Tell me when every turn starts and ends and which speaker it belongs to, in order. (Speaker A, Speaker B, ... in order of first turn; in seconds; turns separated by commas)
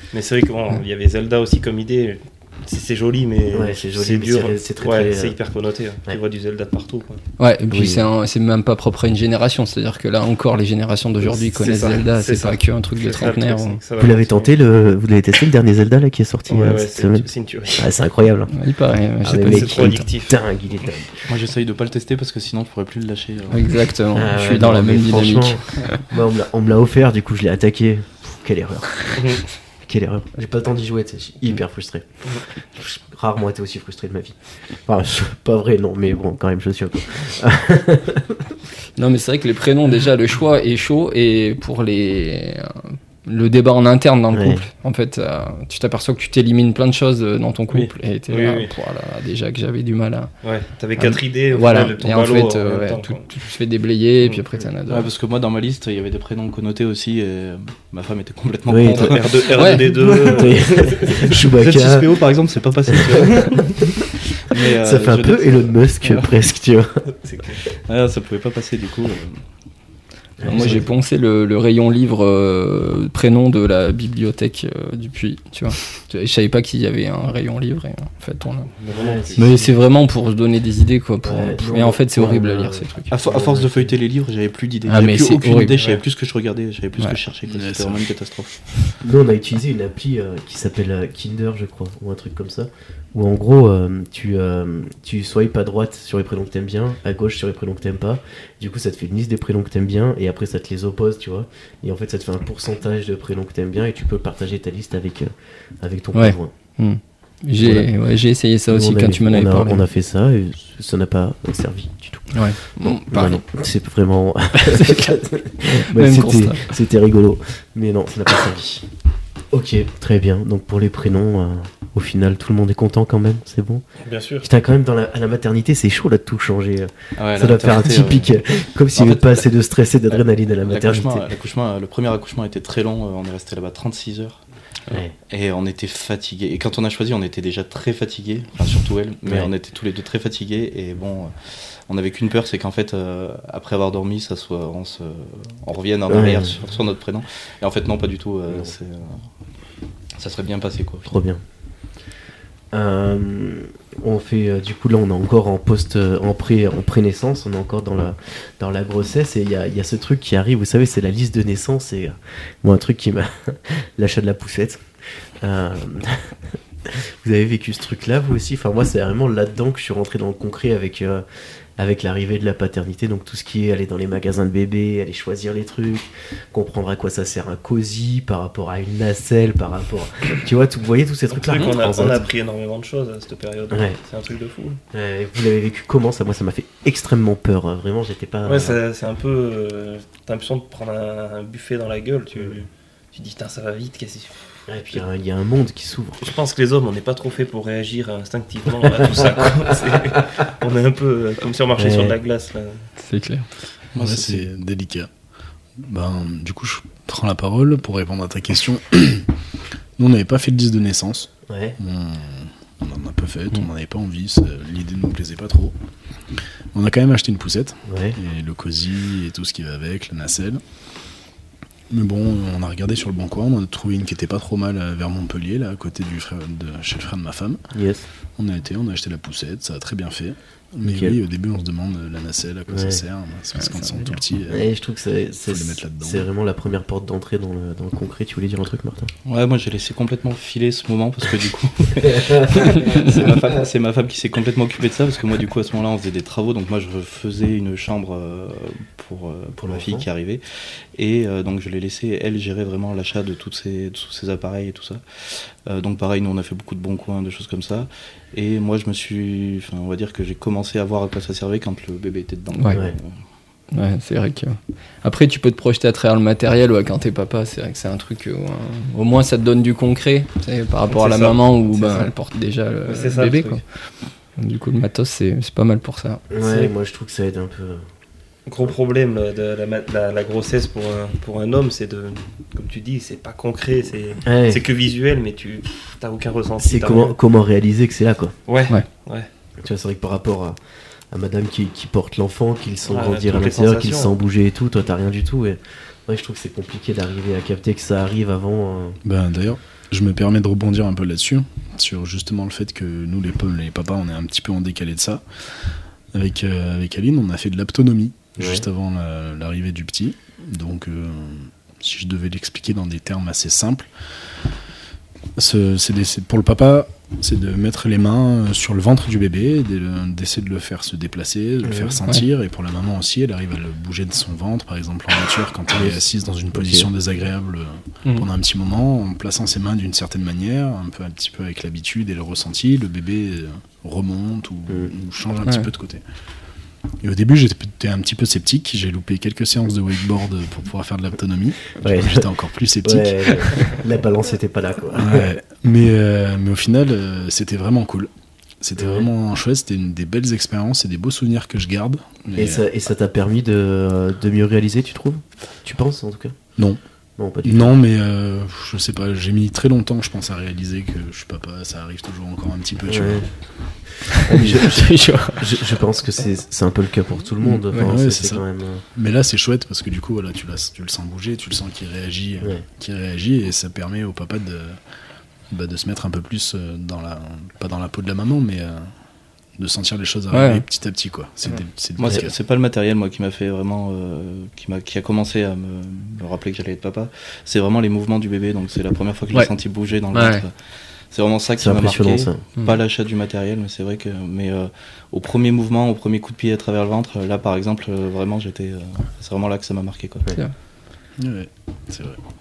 Speaker A: 0.1-7.2, Speaker B: 3.5-5.3, Speaker C: 7.4-13.8, Speaker B: 7.7-8.0, Speaker A: 11.2-14.5, Speaker B: 14.0-18.5, Speaker A: 16.5-17.9, Speaker C: 18.5-20.1, Speaker B: 19.2-21.1, Speaker A: 19.2-20.9, Speaker D: 21.2-23.8, Speaker C: 23.5-26.0, Speaker B: 24.1-32.0, Speaker A: 29.2-29.4, Speaker B: 32.7-38.5, Speaker C: 39.0-50.3, Speaker B: 44.3-44.6, Speaker A: 47.8-48.7, Speaker A: 50.4-53.2, Speaker C: 51.0-55.1, Speaker D: 54.9-66.3, Speaker B: 58.7-59.2, Speaker A: 58.9-61.3, Speaker C: 59.5-59.8, Speaker B: 60.3-62.2, Speaker B: 62.9-67.0, Speaker A: 67.1-67.7, Speaker D: 67.9-69.4, Speaker B: 70.4-70.9, Speaker C: 70.4-78.7, Speaker D: 70.5-70.8, Speaker A: 78.8-79.7, Speaker B: 78.9-79.5, Speaker C: 79.3-83.1, Speaker B: 81.2-83.9, Speaker D: 83.1-88.5, Speaker C: 84.9-85.8, Speaker A: 85.7-86.0, Speaker E: 87.5-88.0, Speaker B: 89.0-106.5, Speaker C: 106.1-109.8, Speaker B: 107.6-107.9, Speaker B: 108.7-118.8, Speaker C: 112.3-113.4, Speaker C: 114.5-116.7, Speaker B: 119.5-123.8, Speaker A: 124.0-124.5, Speaker B: 124.4-131.2, Speaker D: 127.2-129.4, Speaker D: 130.1-134.4, Speaker B: 134.9-135.1, Speaker D: 135.2-149.2, Speaker B: 146.1-146.6, Speaker D: 150.2-151.1, Speaker B: 151.1-151.4, Speaker B: 152.7-164.8, Speaker B: 165.4-171.2, Speaker B: 171.8-182.3, Speaker A: 181.3-184.8, Speaker B: 183.7-184.0, Speaker B: 184.9-188.8, Speaker A: 188.4-195.0, Speaker B: 194.7-196.2, Speaker A: 196.2-202.8, Speaker B: 199.0-199.8, Speaker B: 201.8-202.2, Speaker C: 203.0-203.5, Speaker D: 203.9-204.4, Speaker E: 204.0-205.1, Speaker E: 205.8-209.3, Speaker E: 210.0-215.7, Speaker B: 211.5-211.8, Speaker E: 216.7-220.6, Speaker B: 217.9-218.2, Speaker E: 221.9-227.6, Speaker B: 227.7-228.1, Speaker E: 228.4-234.7, Speaker B: 230.8-231.2, Speaker B: 232.7-233.0, Speaker C: 233.6-234.2, Speaker B: 234.5-239.1, Speaker E: 235.4-236.2, Speaker D: 239.2-250.4, Speaker B: 242.1-242.7, Speaker B: 249.6-250.1, Speaker D: 250.9-263.2, Speaker C: 262.5-262.8, Speaker C: 263.7-273.6, Speaker A: 270.9-272.1, Speaker A: 272.9-273.6, Speaker C: 274.4-276.2, Speaker B: 276.3-277.8, Speaker A: 276.4-276.7, Speaker A: 278.4-287.1, Speaker B: 284.2-284.6, Speaker B: 286.6-288.3, Speaker A: 288.5-289.3, Speaker B: 289.6-290.6, Speaker B: 291.1-299.0, Speaker A: 292.9-294.1, Speaker E: 299.0-313.9, Speaker B: 308.4-308.6, Speaker E: 315.4-336.0, Speaker B: 321.6-322.0, Speaker B: 325.7-326.0, Speaker B: 326.5-326.9, Speaker E: 337.0-343.7, Speaker B: 341.8-342.3, Speaker B: 342.8-345.3, Speaker E: 344.9-348.1, Speaker E: 348.6-352.6, Speaker B: 348.8-349.1, Speaker B: 352.4-356.4, Speaker B: 357.2-357.7, Speaker E: 357.4-363.3, Speaker B: 362.9-363.3, Speaker C: 364.1-365.5, Speaker B: 364.3-368.8, Speaker E: 367.4-368.4, Speaker E: 368.9-374.8, Speaker E: 375.5-378.9, Speaker E: 379.6-382.3, Speaker C: 380.3-380.6, Speaker D: 382.0-390.5, Speaker C: 390.1-390.4, Speaker D: 391.1-400.3, Speaker B: 391.6-392.4, Speaker E: 401.2-402.2